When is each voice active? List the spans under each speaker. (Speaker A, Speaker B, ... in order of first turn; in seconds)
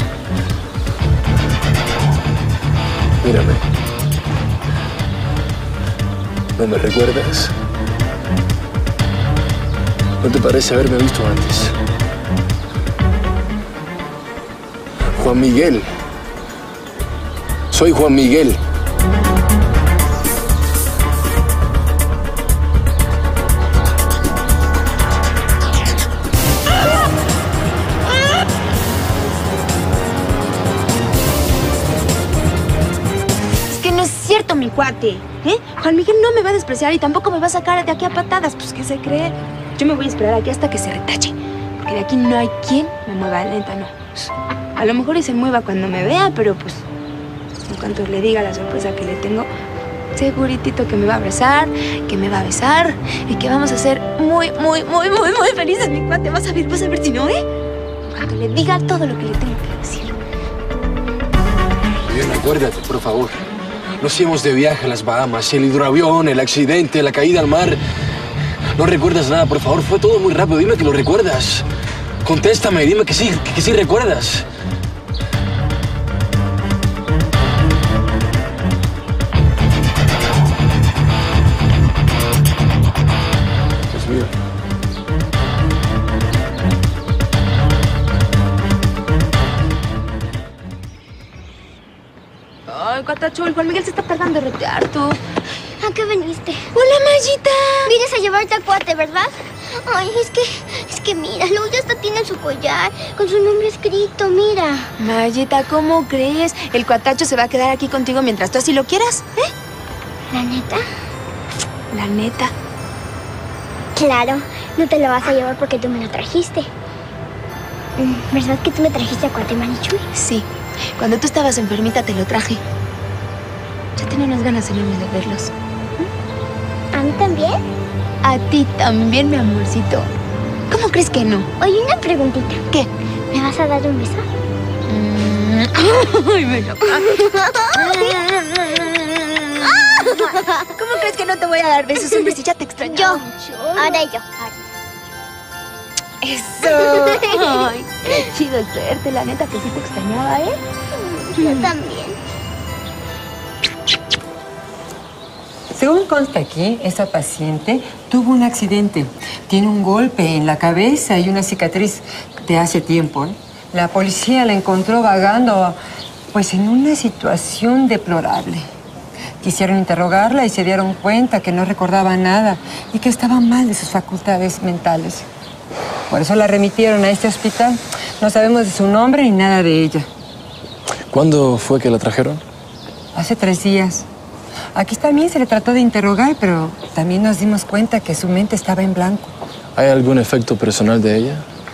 Speaker A: 3.2-3.6, 6.6-7.5, 10.2-11.7, 15.1-15.9, 17.7-18.6, 62.1-63.4, 64.0-67.8, 68.8-71.7, 72.2-74.5, 83.9-84.3, 181.1-182.4, 189.8-191.5
Speaker B: 33.7-46.9, 47.6-49.5, 50.1-57.4, 58.1-60.2, 92.7-95.2, 96.7-97.9, 105.0-109.5, 111.9-112.5, 120.1-120.5, 121.0-122.6, 124.0-125.5, 128.2-130.1, 130.7-131.5, 134.9-137.1, 137.7-143.9, 146.2-150.6, 151.4-151.7
Speaker C: 95.8-96.6, 97.9-104.9, 110.3-110.8, 114.0-116.7, 118.0-120.0, 127.0-127.6, 131.6-132.6, 133.3-134.3, 137.1-138.2, 139.9-140.5, 142.8-144.4, 147.0-147.5, 151.3-152.2
Speaker D: 155.7-165.8, 166.3-168.6, 169.4-175.3, 176.1-180.1, 183.1-184.1, 184.7-189.3